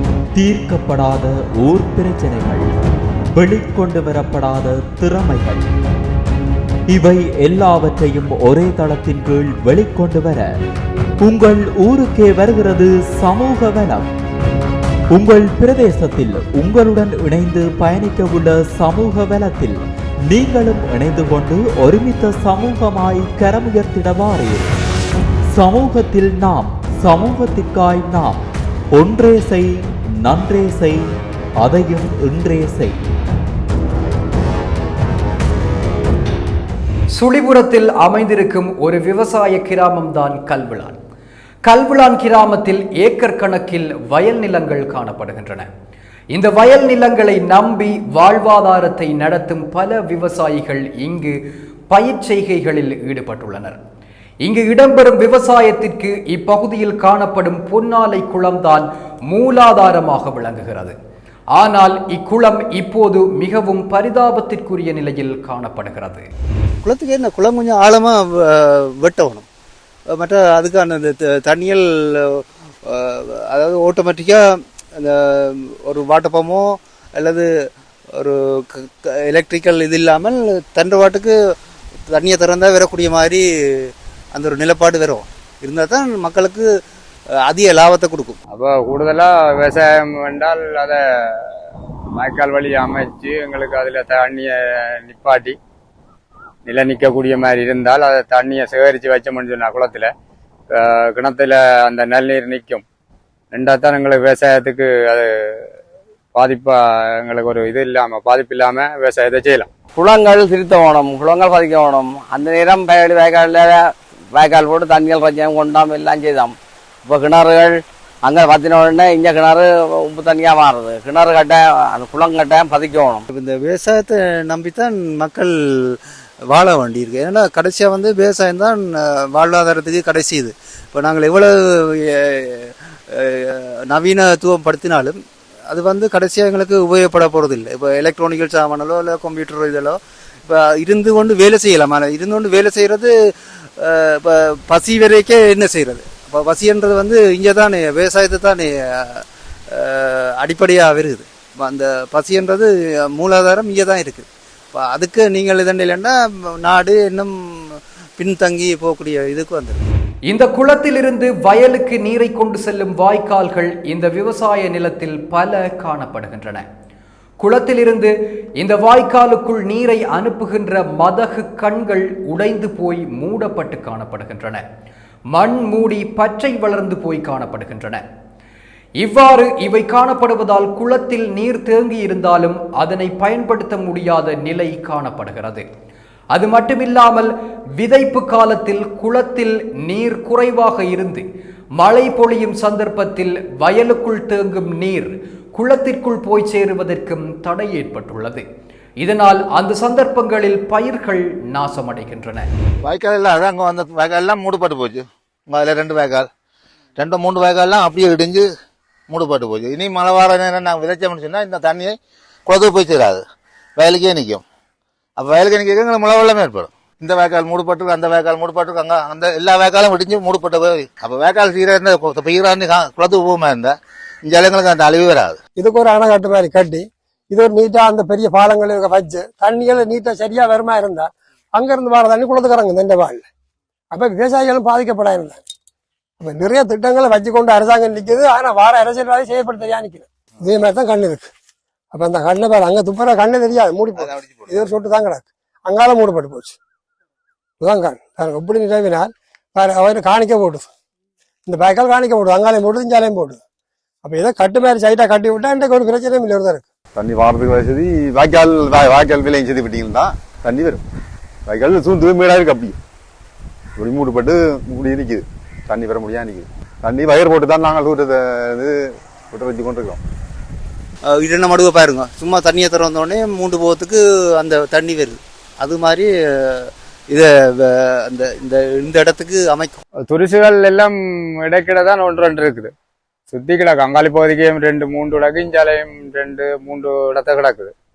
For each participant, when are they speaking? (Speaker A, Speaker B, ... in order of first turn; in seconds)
Speaker A: 0.3-2.7, 3.4-5.7, 6.9-10.5, 11.2-14.1, 15.1-24.7, 25.5-31.0, 31.6-33.0
Speaker B: 37.1-41.0, 41.7-45.7, 46.3-51.4, 51.9-53.8, 54.4-61.0, 61.6-66.3, 160.3-166.7, 167.4-174.6, 175.3-178.0, 179.0-185.7, 186.3-191.2, 191.8-198.4, 199.0-202.5
Speaker C: 66.8-69.5, 70.1-74.4, 75.0-77.5, 78.1-81.4, 82.1-86.7, 87.4-88.4, 123.3-126.0, 126.5-143.1, 143.8-159.9, 271.1-279.8
Speaker D: 88.5-91.5, 92.2-95.6, 96.7-100.1, 100.8-102.8, 103.5-105.7, 106.3-109.7, 280.1-282.7, 283.3-287.7
Speaker E: 110.0-116.5, 117.1-123.2
Speaker F: 202.8-206.3, 207.0-208.5, 209.1-211.9, 212.5-213.2, 213.8-214.4, 215.2-223.7, 224.2-225.4
Speaker G: 225.6-233.3, 233.9-235.4, 236.2-241.3, 241.9-246.6, 247.6-250.7, 251.5-253.4, 254.0-256.7
Speaker H: 257.0-260.8, 261.5-262.8, 263.8-268.8, 269.3-270.0